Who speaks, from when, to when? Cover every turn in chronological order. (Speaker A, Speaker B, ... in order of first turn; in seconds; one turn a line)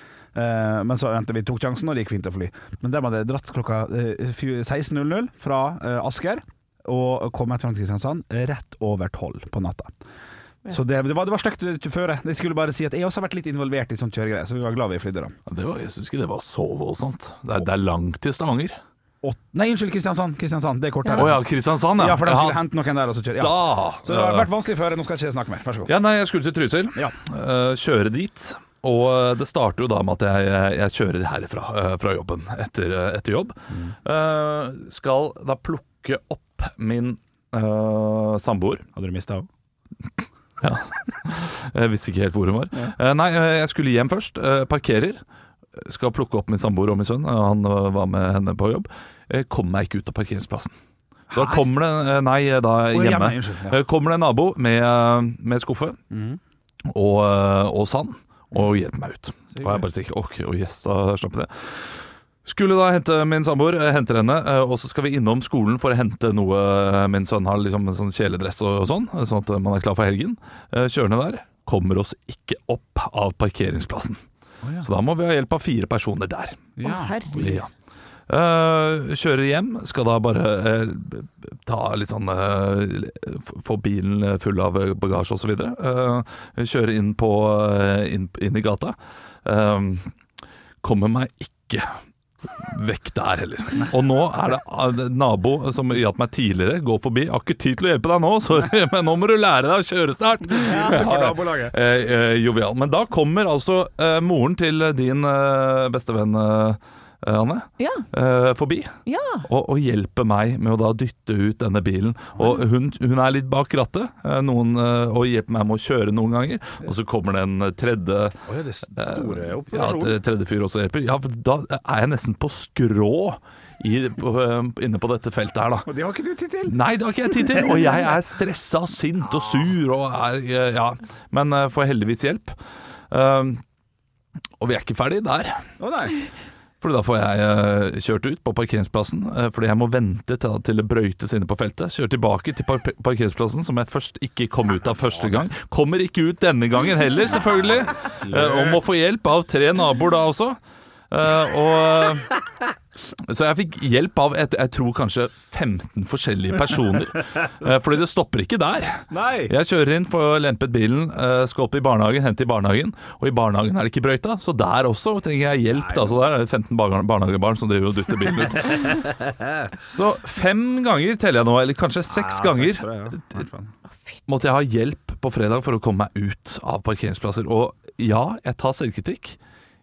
Speaker A: 0.3-9.9
Speaker A: 10.7-15.3
Speaker B: 15.5-18.8
Speaker A: 19.2-21.4
Speaker B: 21.1-22.6
Speaker A: 22.0-25.9
Speaker B: 23.4-24.5
Speaker B: 25.9-38.9
Speaker A: 39.0-39.5
Speaker B: 40.6-45.2
Speaker B: 45.8-50.7
Speaker A: 51.3-51.7
Speaker B: 51.3-56.0
Speaker A: 52.9-53.8
Speaker A: 56.1-56.4
Speaker B: 56.9-61.9
Speaker A: 59.6-59.8
Speaker B: 62.5-74.2
Speaker A: 74.6-74.9
Speaker B: 74.8-77.7
Speaker A: 76.8-77.2
Speaker C: 76.8-77.6
Speaker B: 78.3-90.1
Speaker B: 90.8-91.9
Speaker B: 92.5-108.9
Speaker A: 100.5-101.8
Speaker C: 100.7-101.1
Speaker C: 107.8-108.0
Speaker C: 109.1-109.5
Speaker B: 109.4-118.4
Speaker A: 118.5-120.2
Speaker B: 119.0-125.9
Speaker A: 125.9-126.8
Speaker B: 126.7-132.6
Speaker B: 133.1-133.6
Speaker B: 134.6-135.6
Speaker A: 135.8-136.2
Speaker B: 136.8-150.6
Speaker A: 148.2-148.8
Speaker B: 151.1-152.4
Speaker B: 153.3-169.1
Speaker A: 159.1-159.5
Speaker A: 165.7-166.2
Speaker A: 168.7-169.7
Speaker B: 169.9-173.3
Speaker A: 172.1-173.7
Speaker B: 174.3-179.4